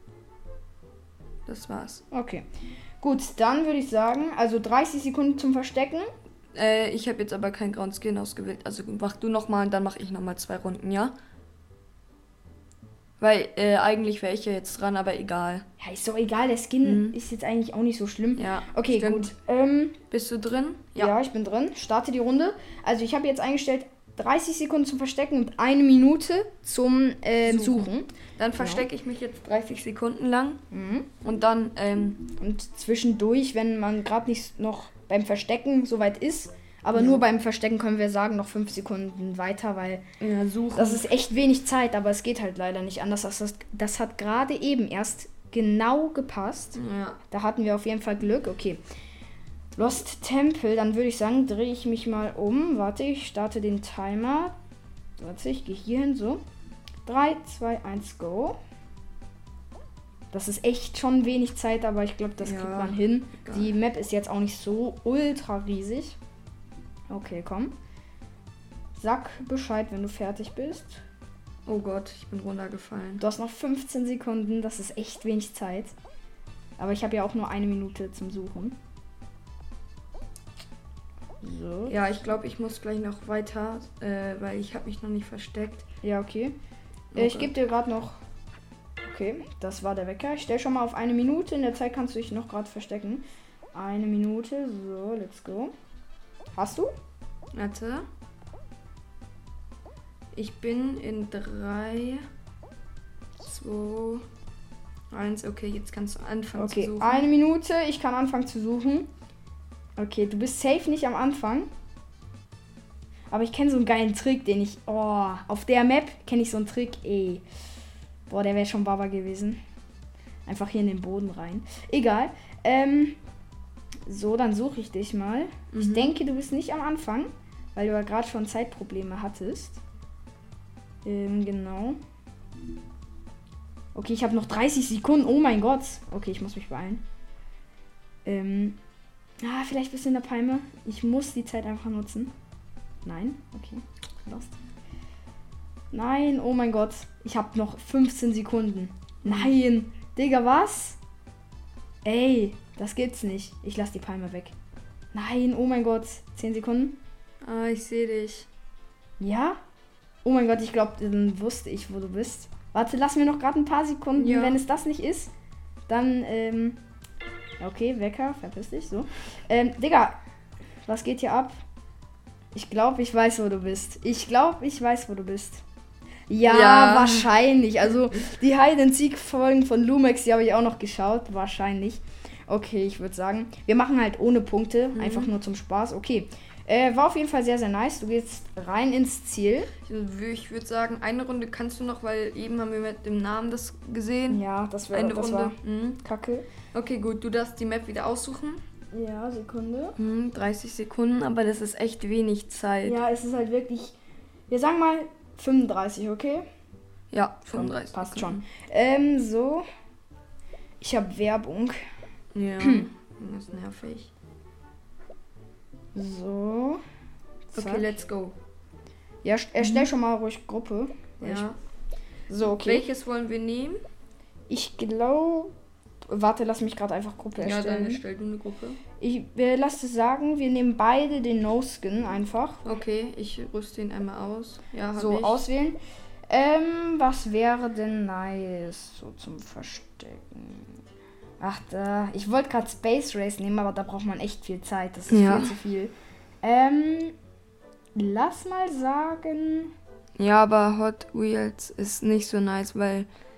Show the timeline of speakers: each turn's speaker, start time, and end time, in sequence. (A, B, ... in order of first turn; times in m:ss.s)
0:01.5-0:02.0 A
0:02.1-0:02.5 B
0:03.0-0:06.1 B
0:06.6-0:11.1 A
0:13.2-0:15.6 A
0:15.8-0:20.0 B
0:16.8-0:17.2 A
0:18.4-0:19.3 A
0:20.1-0:21.1 A
0:21.0-0:28.9 B
0:27.4-0:30.6 A
0:30.7-0:31.1 B
0:31.2-0:32.3 A
0:32.4-0:40.0 B
0:36.9-0:37.2 A
0:40.2-0:41.1 A
0:40.8-0:46.8 B
0:46.8-0:47.2 A
0:47.3-0:48.8 B
0:49.8-0:54.6 B
0:55.2-0:56.4 B
0:57.1-0:58.6 B
1:00.3-1:06.2 B
1:02.4-1:03.7 A
1:07.1-1:07.7 B
1:09.0-1:11.0 B
1:11.7-1:13.2 A
1:13.2-1:15.9 B
1:16.8-1:18.8 B
1:21.4-1:22.0 B
1:21.9-1:25.9 A
1:26.0-1:26.6 B
1:27.1-1:27.5 A
1:27.2-1:28.2 B
1:29.0-1:35.7 B
1:36.6-1:36.9 B
1:37.5-1:38.1 A
1:40.4-1:42.2 A
1:43.4-1:44.2 A
1:45.1-1:47.3 A
1:46.6-1:49.1 B
1:50.0-1:51.7 B
1:53.3-1:57.4 B
1:58.3-1:59.6 B
2:00.5-2:03.2 B
2:04.1-2:09.8 B
2:05.7-2:06.1 A
2:11.0-2:12.0 B
2:13.9-2:17.0 B
2:18.2-2:18.8 B
2:19.4-2:22.3 B
2:23.0-2:24.6 B
2:25.9-2:31.0 B
2:29.2-2:29.5 A
2:32.0-2:34.5 B
2:35.1-2:37.0 B
2:37.4-2:38.5 A
2:39.2-2:39.6 B
2:40.2-2:45.3 B
2:44.2-2:44.6 A
2:45.9-2:46.8 B
2:47.6-2:50.2 B
2:50.9-2:51.6 B
2:52.5-2:55.6 B
2:56.3-3:09.7 B
2:56.4-2:57.3 A
3:05.0-3:05.3 A
3:09.8-3:16.0 A
3:14.3-3:16.4 B
3:16.7-3:18.6 A
3:18.9-3:20.0 B
3:20.0-3:23.0 A
3:22.8-3:24.0 B
3:24.5-3:26.5 B
3:27.1-3:28.4 A
3:27.5-3:29.6 B
3:30.8-3:31.8 B
3:32.3-3:34.1 A
3:32.6-3:32.9 B
3:35.9-3:36.8 B
3:37.5-3:37.9 B
3:37.6-3:38.4 A
3:39.2-3:41.5 B
3:39.6-3:39.9 A
3:41.2-3:41.6 A
3:42.3-3:42.9 B
3:42.4-3:43.8 A
3:44.5-3:45.5 B
3:46.0-3:48.0 B
3:47.4-3:48.8 A
3:49.0-3:52.6 B
3:52.6-3:55.4 A
3:54.9-3:55.8 B
3:56.3-4:00.7 B
4:01.4-4:07.1 B
4:05.1-4:05.6 A
4:07.9-4:09.7 B
4:10.2-4:13.1 A